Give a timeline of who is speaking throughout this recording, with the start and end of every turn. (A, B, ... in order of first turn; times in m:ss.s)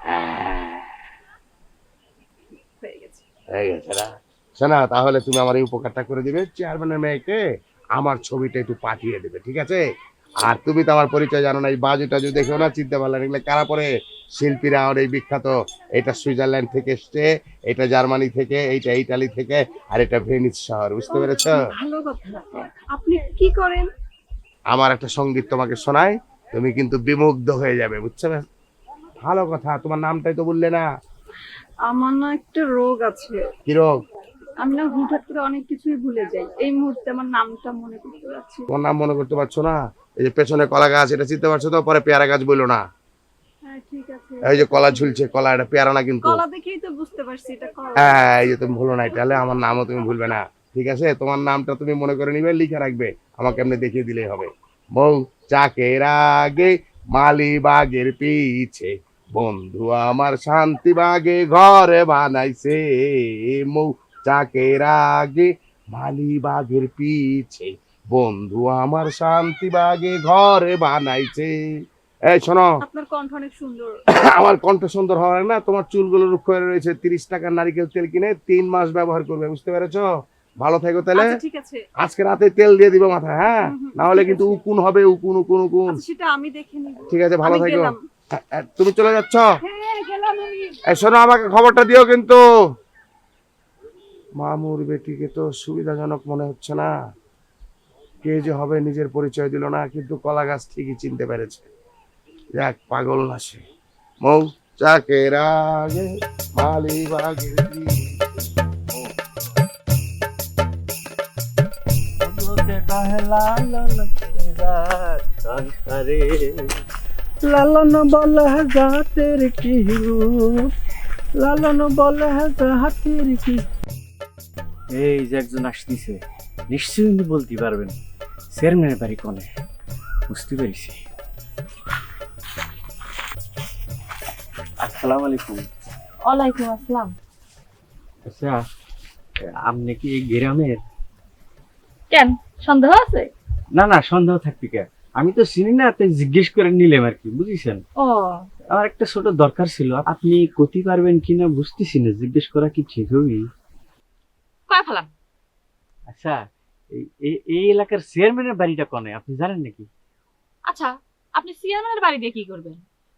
0:00.1-0:00.8 A
0:02.8-0:03.2 B
0:03.5-0:04.1 A
0:04.6-0:07.4 A
0:08.0-0:09.8 A
0:10.4-0:21.6 A
0:21.1-0:23.9 B
0:24.7-0:28.4 A
0:29.2-0:30.8 A
0:31.9-0:33.4 B
0:34.6-0:38.7 B
0:38.7-0:42.8 A
0:43.7-0:45.2 B
0:44.5-0:46.4 A
0:46.2-0:48.3 B
0:48.1-1:11.5 A
1:12.3-1:12.7 A
1:12.8-1:13.9 B
1:14.3-1:20.1 A
1:20.6-1:21.2 A
1:21.2-1:21.8 B
1:22.0-1:26.0 A
1:23.6-1:24.6 B
1:25.9-1:28.0 B
1:27.1-1:29.4 A
1:29.6-1:30.8 B
1:30.9-1:32.4 A
1:34.4-1:36.9 A
1:38.2-1:41.7 A
1:42.6-1:43.6 A
1:44.2-1:46.1 A
1:46.6-1:49.1 A
1:52.2-1:56.8 C
1:57.4-2:00.7 C
2:01.4-2:03.6 C
2:04.9-2:08.0 C
2:08.5-2:09.5 C
2:10.3-2:11.0 C
2:14.8-2:15.7 C
2:16.3-2:17.1 D
2:18.3-2:18.6 C
2:19.6-2:20.8 C
2:22.1-2:23.3 D
2:23.8-2:27.8 C
2:28.0-2:28.4 D
2:28.7-2:33.4 C
2:34.7-2:35.1 D
2:36.1-2:36.4 C
2:36.9-2:39.9 C
2:40.7-2:42.8 D